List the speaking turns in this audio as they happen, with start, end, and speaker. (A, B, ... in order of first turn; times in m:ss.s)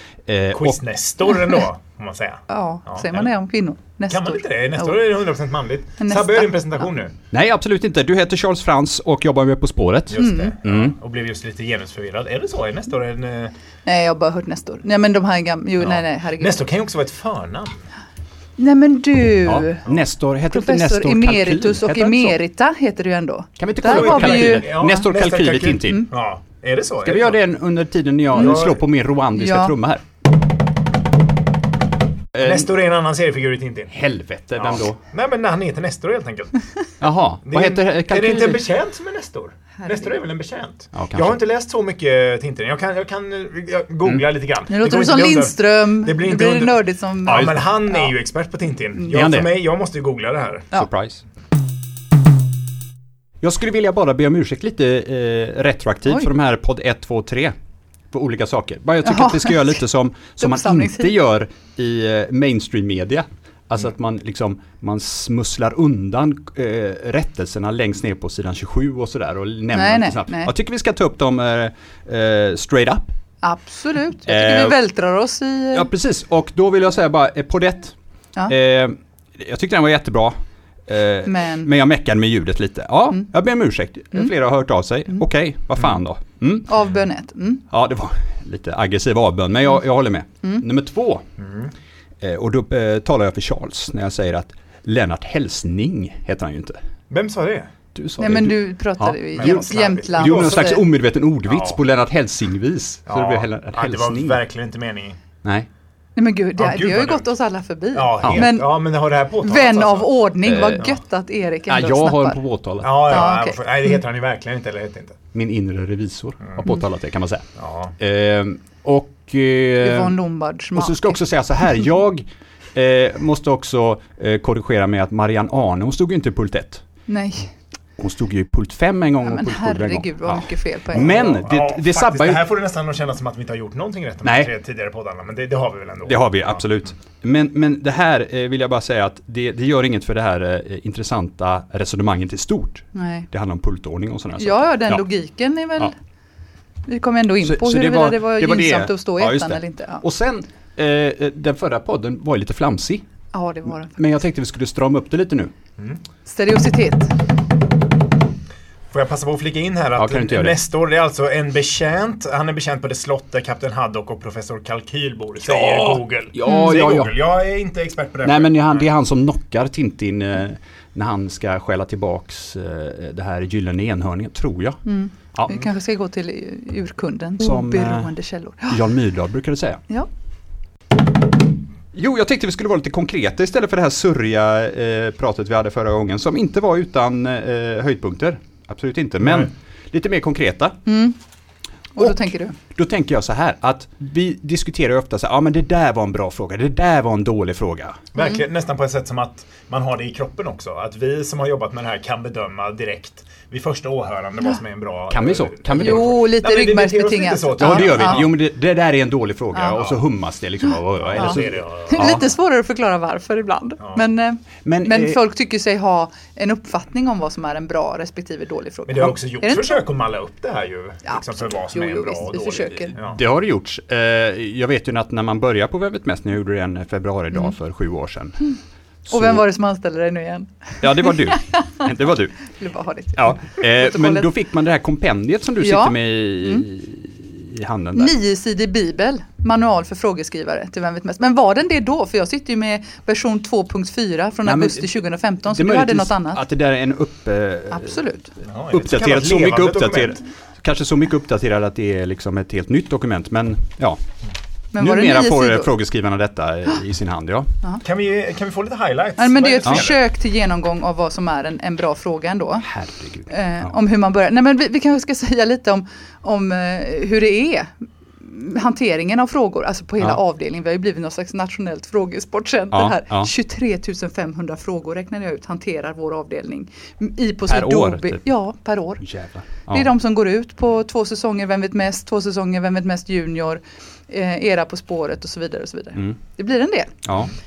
0:00.3-0:00.8 A
0:00.5-0:03.3 B
0:02.5-0:05.0 C
0:04.1-0:07.2 B
0:06.0-0:06.8 C
0:07.3-0:10.9 A
0:10.1-0:13.5 B
0:10.2-0:10.6 C
0:13.9-0:16.6 C
0:15.8-0:17.8 B
0:18.6-0:19.8 C
0:19.4-0:22.4 A
0:20.5-0:24.7 C
0:23.6-0:26.1 A
0:23.8-0:27.4 B
0:27.0-0:30.0 A
0:28.3-0:28.8 B
0:28.4-0:28.7 C
0:29.3-0:29.8 C
0:32.3-0:32.7 A
0:32.4-0:33.9 B
0:33.9-0:35.0 A
0:34.6-0:36.7 B
0:37.0-0:38.6 A
0:37.4-0:50.7 B
0:40.9-0:41.4 A
0:44.7-0:48.1 C
0:47.3-0:47.5 A
0:49.1-0:49.6 A
0:50.7-0:51.2 A
0:53.4-0:57.5 A
0:58.1-1:13.1 A
0:59.0-0:59.8 C
1:00.4-1:01.1 C
1:09.7-1:10.5 C
1:13.4-1:15.9 C
1:14.3-1:14.8 A
1:15.7-1:18.0 A
1:18.5-1:20.4 A
1:20.9-1:26.7 A
1:21.3-1:21.7 C
1:26.7-1:27.6 C
1:27.7-1:31.3 A
1:31.4-1:31.7 B
1:32.2-1:36.8 A
1:37.1-1:37.7 B
1:38.0-1:44.4 A
1:38.2-1:40.8 C
1:39.4-1:40.8 B
1:41.5-1:41.8 B
1:43.1-1:45.2 B
1:45.4-1:45.7 A
1:46.2-1:48.8 C
1:46.6-1:47.3 B
1:47.9-1:50.1 B
1:48.2-1:48.5 A
1:49.4-1:52.4 C
1:50.4-1:50.9 A
1:51.7-1:53.3 A
1:52.8-1:55.2 B
1:53.1-1:53.6 C
1:55.3-1:57.4 A
1:57.6-1:58.0 B
1:58.0-2:00.1 A
1:59.8-2:01.2 C
2:00.8-2:06.8 A
2:07.1-2:07.5 C
2:08.0-2:12.4 A
2:09.2-2:11.3 C
2:10.9-2:16.6 B
2:14.2-2:14.5 A
2:16.0-2:25.0 A
2:23.0-2:23.3 C
2:24.4-2:25.9 C
2:26.9-2:30.0 C
2:27.4-2:33.0 A
2:33.3-2:34.0 C
2:34.0-2:35.5 A
2:36.3-2:37.1 C
2:38.9-2:48.9 B
2:40.0-2:40.6 A
2:45.4-2:47.1 A
2:46.5-2:46.8 C
2:48.2-2:54.8 A
2:54.9-2:58.8 C
2:55.3-2:55.6 A
2:57.4-2:58.1 A
2:58.7-2:59.8 A
3:01.9-3:10.8 A
3:09.2-3:09.5 B
3:10.9-3:11.2 C
3:12.0-3:12.6 C
3:12.7-3:18.0 A
3:18.1-3:28.3 B
3:25.1-3:26.1 A
3:25.8-3:28.3 C
3:27.6-3:32.2 A
3:29.6-3:29.8 C
3:31.1-3:32.2 B
3:31.2-3:39.8 C
3:34.6-3:35.2 A
3:38.9-3:43.2 B
3:41.1-3:43.0 C
3:42.9-3:48.5 A
3:49.1-3:49.4 A
3:49.1-3:51.9 C
3:50.8-3:52.4 A
3:52.5-3:54.3 C
3:53.2-3:58.1 A
3:55.6-3:56.6 C
3:58.0-4:06.4 C
4:04.4-4:04.9 A
4:05.5-4:08.0 A
4:07.7-4:08.3 C
4:08.4-4:10.2 B
4:08.7-4:14.0 A
4:14.7-4:15.7 C
4:14.8-4:17.5 A
4:17.8-4:20.0 B
4:19.2-4:22.7 C
4:22.6-4:23.7 A
4:23.3-4:39.0 C
4:32.7-4:33.3 A
4:37.5-4:38.2 A
4:39.0-4:39.9 A
4:39.7-4:47.0 C
4:47.0-4:47.3 A